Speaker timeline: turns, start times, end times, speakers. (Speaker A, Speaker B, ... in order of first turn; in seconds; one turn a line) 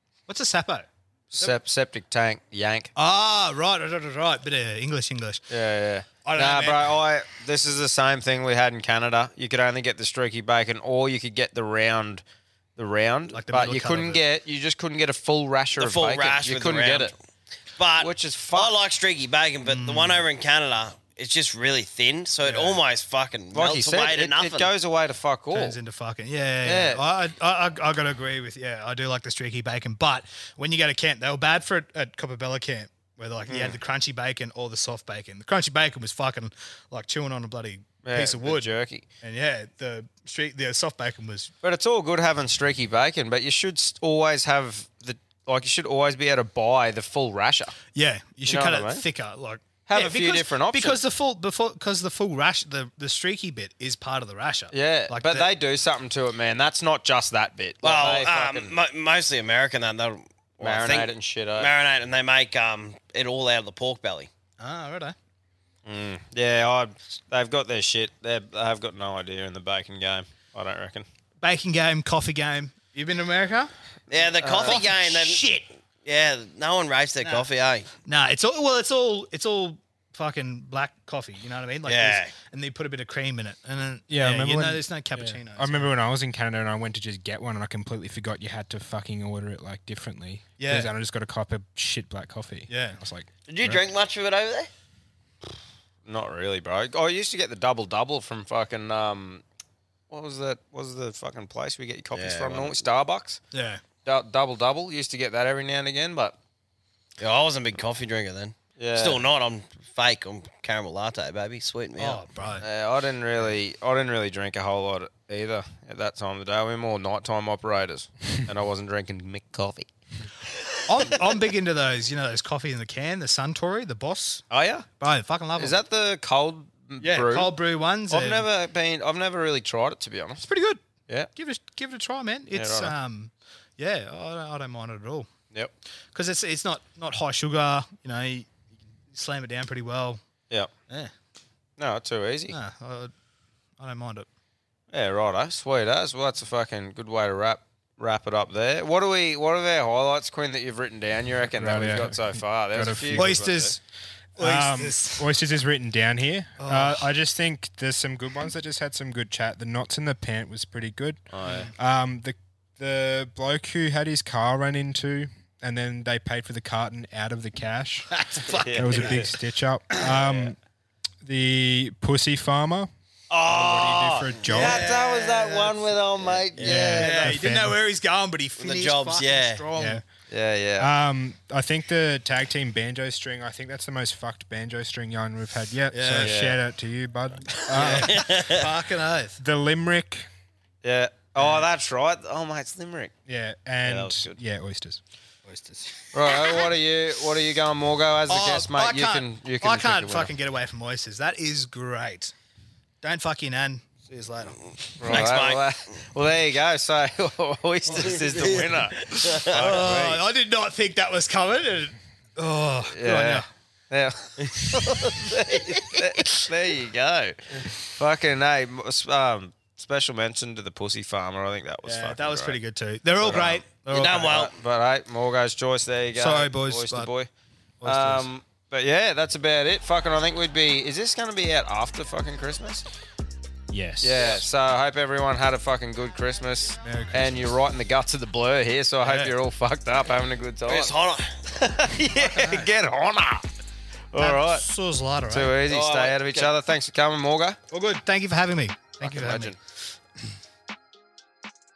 Speaker A: 0.3-1.6
Speaker B: 1.3-2.9
Speaker A: 3.0-5.4
Speaker B: 5.5-12.2
Speaker A: 6.2-7.0
Speaker B: 12.8-17.1
Speaker A: 13.3-14.2
Speaker C: 15.8-17.2
Speaker C: 17.8-24.7
Speaker B: 18.0-18.7
Speaker A: 19.6-20.2
Speaker A: 22.4-22.8
Speaker B: 23.5-25.8
Speaker A: 25.5-38.7
Speaker B: 26.6-27.0
Speaker B: 33.5-33.8
Speaker B: 38.0-39.0
Speaker A: 39.2-41.5
Speaker B: 41.6-47.8
Speaker A: 47.9-55.5
Speaker B: 48.5-49.0
Speaker B: 49.9-51.0
Speaker B: 54.7-58.7
Speaker C: 57.8-64.3
Speaker B: 60.6-61.7
Speaker A: 64.6-65.2
Speaker B: 65.8-71.0
Speaker A: 71.4-73.7
Speaker C: 74.1-75.5
Speaker B: 74.4-74.8
Speaker A: 74.6-75.7
Speaker C: 76.0-77.9
Speaker A: 78.0-85.9
Speaker C: 81.8-82.3
Speaker D: 84.1-93.8
Speaker A: 90.6-90.9
Speaker A: 92.7-93.0
Speaker C: 93.5-94.7
Speaker B: 96.0-99.4
Speaker B: 100.1-103.4
Speaker C: 102.1-102.8
Speaker A: 103.5-103.8
Speaker B: 104.0-106.4
Speaker C: 107.2-112.2
Speaker B: 108.8-109.2
Speaker A: 112.0-112.6
Speaker B: 112.6-119.9
Speaker A: 120.9-124.4
Speaker B: 124.5-124.9
Speaker A: 125.0-125.8
Speaker B: 125.6-127.5
Speaker A: 127.0-128.5
Speaker B: 128.1-130.4
Speaker A: 130.4-130.8
Speaker A: 131.3-135.3
Speaker B: 132.5-132.9
Speaker A: 136.1-138.5
Speaker A: 139.1-140.2
Speaker B: 141.8-142.6
Speaker A: 142.5-143.1
Speaker A: 143.8-144.3
Speaker B: 144.9-153.8
Speaker D: 151.5-153.5
Speaker A: 153.1-153.8
Speaker D: 154.4-168.1
Speaker A: 154.4-155.3
Speaker A: 156.6-157.1
Speaker A: 161.4-161.7
Speaker A: 168.1-169.3
Speaker B: 168.6-169.3
Speaker D: 168.8-170.6
Speaker B: 170.0-170.5
Speaker D: 171.2-172.9
Speaker C: 173.3-174.8
Speaker D: 173.4-174.8
Speaker B: 174.5-177.3
Speaker A: 174.5-175.9
Speaker C: 176.5-176.8
Speaker D: 176.6-177.8
Speaker A: 176.6-180.0
Speaker C: 178.6-179.7
Speaker D: 179.8-180.0
Speaker B: 180.3-180.9
Speaker D: 180.8-188.3
Speaker A: 185.9-186.4
Speaker B: 186.2-186.6
Speaker C: 187.7-188.6
Speaker A: 187.7-189.4
Speaker D: 189.4-190.3
Speaker B: 190.8-193.1
Speaker D: 193.2-195.0
Speaker B: 193.8-194.4
Speaker A: 195.4-196.4
Speaker B: 196.1-200.3
Speaker A: 198.3-202.3
Speaker A: 203.0-205.2
Speaker B: 205.0-210.2
Speaker C: 205.0-205.9
Speaker A: 207.9-208.2
Speaker C: 207.9-209.8
Speaker A: 209.5-213.4
Speaker B: 212.9-217.4
Speaker B: 217.9-222.6
Speaker A: 221.8-224.4
Speaker B: 223.2-223.6
Speaker C: 223.9-224.5
Speaker B: 224.2-227.3
Speaker A: 226.1-227.1
Speaker A: 227.8-228.3
Speaker B: 227.8-232.8
Speaker D: 233.7-234.2
Speaker B: 234.0-240.9
Speaker A: 236.8-237.5
Speaker A: 239.0-239.3
Speaker C: 240.7-241.4
Speaker B: 241.5-243.4
Speaker A: 242.1-242.7
Speaker B: 244.1-244.7
Speaker A: 244.2-245.6
Speaker B: 245.3-247.6
Speaker C: 245.7-246.5
Speaker A: 247.7-249.6
Speaker B: 249.0-249.6